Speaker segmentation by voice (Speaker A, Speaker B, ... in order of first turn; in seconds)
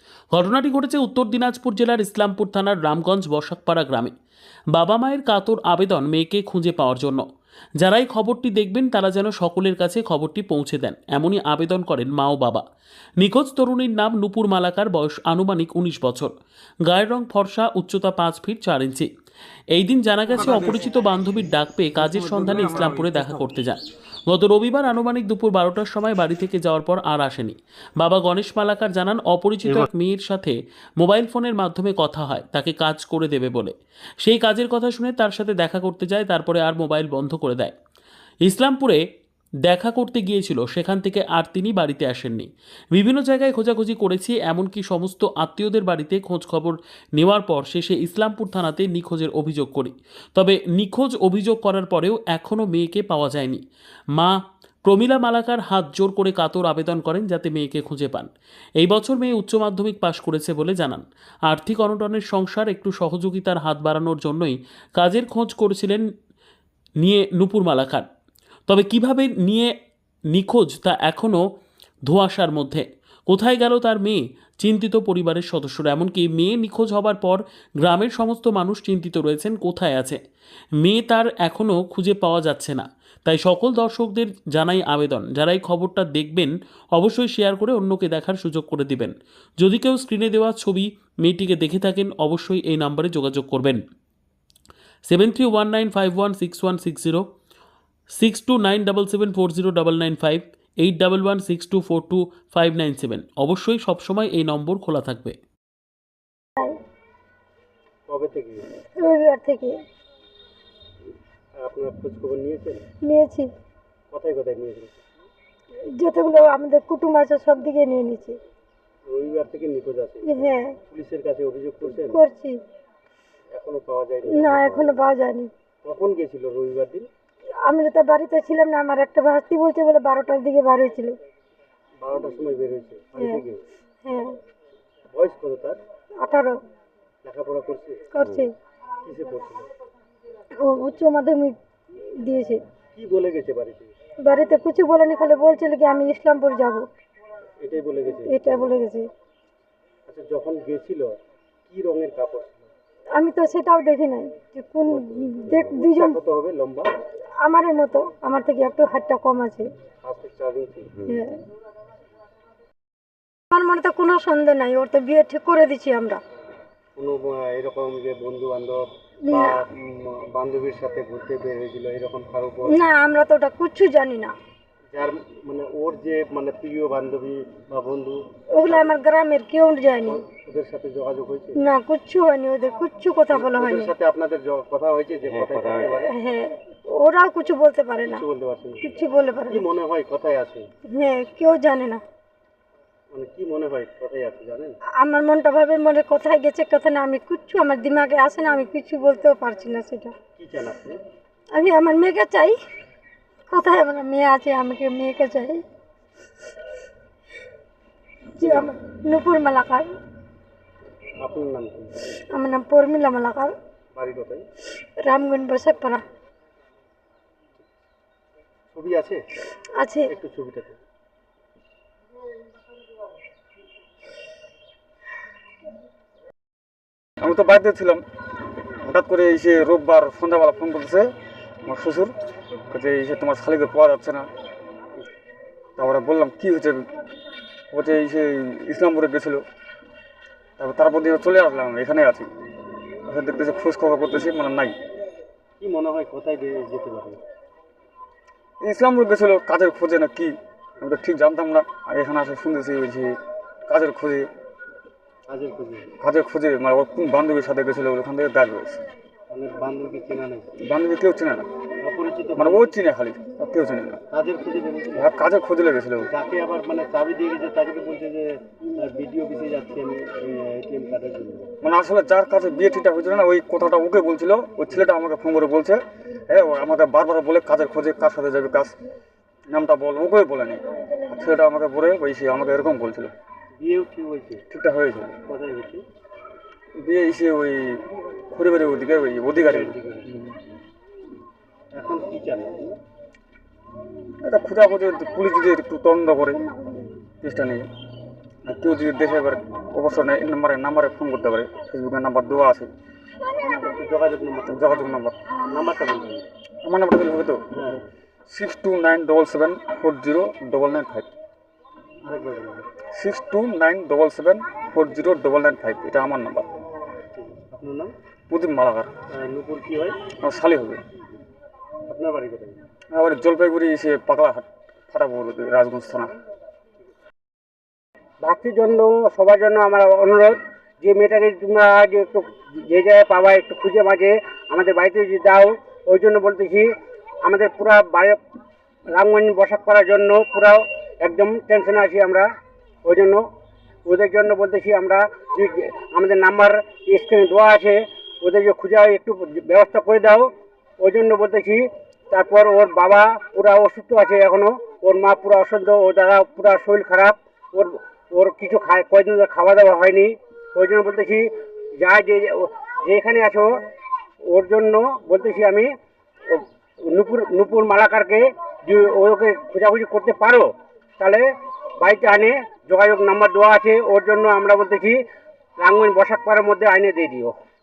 Speaker A: 0.3-4.1, 4.7-7.2, 7.8-12.6, 13.2-16.3, 16.8-19.1, 19.7-37.7, 38.4-39.0, 39.7-53.6, 54.1-66.0, 67.0-68.0, 68.7-69.7, 70.3-71.4, 72.1-80.2, 80.8-93.8, 95.1-97.2, 98.2-105.3
Speaker B: 108.1-108.7, 111.6-112.8, 114.1-115.0, 119.1-122.2, 123.5-124.9, 125.8-127.0, 132.0-133.6, 135.1-135.8, 137.2-138.1, 139.0-139.7, 142.9-143.9, 147.6-148.5, 150.1-151.2, 151.7-152.7, 154.9-156.9, 160.0-161.0, 166.9-172.8, 174.9-178.9, 180.1-181.6, 183.3-186.1, 188.1-188.9, 189.5-190.7, 193.1-194.8, 200.3-201.0, 208.4-208.7, 211.2-212.1, 213.9-214.5, 218.7-219.2, 220.1-220.8, 245.6-247.2, 255.3-255.9, 259.3-260.6, 261.8-262.7, 264.1-265.1, 266.0-271.5, 283.6-284.4, 285.3-285.8, 289.3-290.2, 291.7-292.8, 303.6-304.7, 305.5-306.2, 307.5-307.8, 312.0-312.7, 317.2-317.9, 319.1-320.0, 321.9-322.6
Speaker C: 109.0-109.7, 113.0-113.5, 116.0-118.3, 120.2-120.8, 121.8-122.6, 124.3-125.5, 127.6-131.1, 133.2-133.4, 134.0-134.4, 136.2-136.6, 138.1-138.5, 140.6-142.6, 144.2-146.8, 148.2-149.1, 153.1-156.2, 157.4-159.7, 161.0-161.3, 163.5-166.2, 169.3-169.6, 172.7-174.3, 178.6-180.2, 181.6-183.9, 185.9-188.2, 188.8-189.6, 190.9-192.0, 195.0-200.2, 201.5-202.5, 203.5-205.6, 208.4-209.8, 212.3-213.5, 215.0-216.0, 219.8-220.1
Speaker D: 227.2-228.0, 228.8-231.1, 231.6-232.1, 232.7-234.3, 235.8-236.9, 237.7-239.4, 240.6-242.3, 243.1-244.8, 248.6-253.2, 253.7-254.3, 256.0-258.8, 260.6-261.5, 262.4-264.0, 265.0-266.1, 271.6-278.7, 279.5-283.1, 284.5-285.1, 286.8-290.3, 294.2-296.4, 297.2-297.7, 298.4-302.7, 304.5-305.1, 306.6-307.4, 308.3-311.1, 312.9-316.5, 318.3-318.9, 320.2-320.8, 322.9-326.1
Speaker E: 328.2-336.7, 337.2-338.2, 338.9-342.2, 342.8-343.2, 343.9-350.3, 350.8-363.5, 364.2-365.7, 366.3-371.2, 371.8-375.0, 375.6-377.3